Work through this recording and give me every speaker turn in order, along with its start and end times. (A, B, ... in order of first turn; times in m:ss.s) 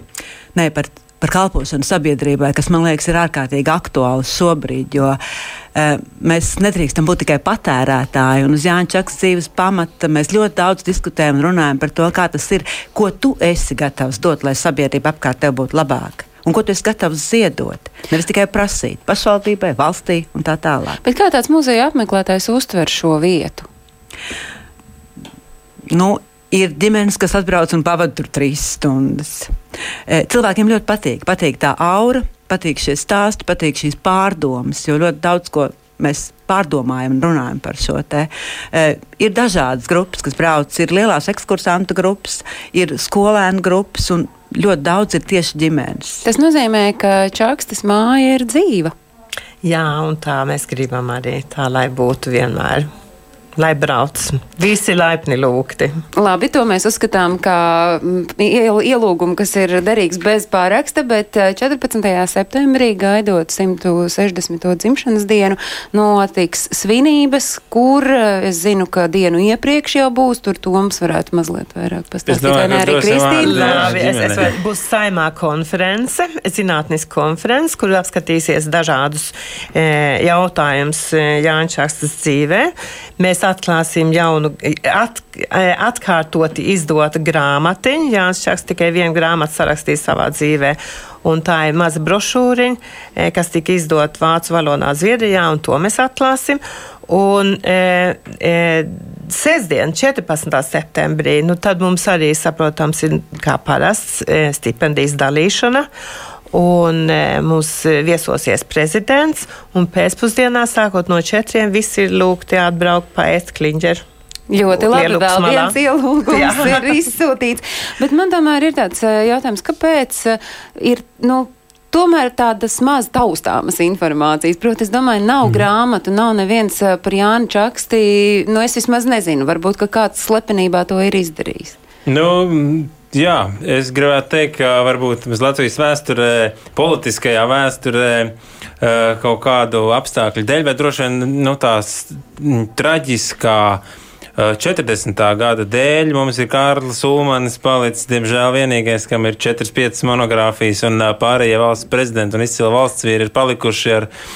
0:00.5-0:05.2 A
0:05.7-0:21.0 A
0:21.0-0:23.7 B
0:25.9-0:29.5 A
0:30.1-0:46.2 A
0:46.2-0:48.9 B
0:49.6-0:52.9 C
0:53.6-0:56.0 C
0:56.2-1:14.0 B
1:12.3-1:14.5 D
1:13.4-1:45.9 C
1:46.5-1:54.0 C
1:54.5-2:11.8 B
1:54.7-1:55.8 C
1:56.3-1:56.9 C
2:12.1-2:23.8 D
2:24.4-2:34.1 D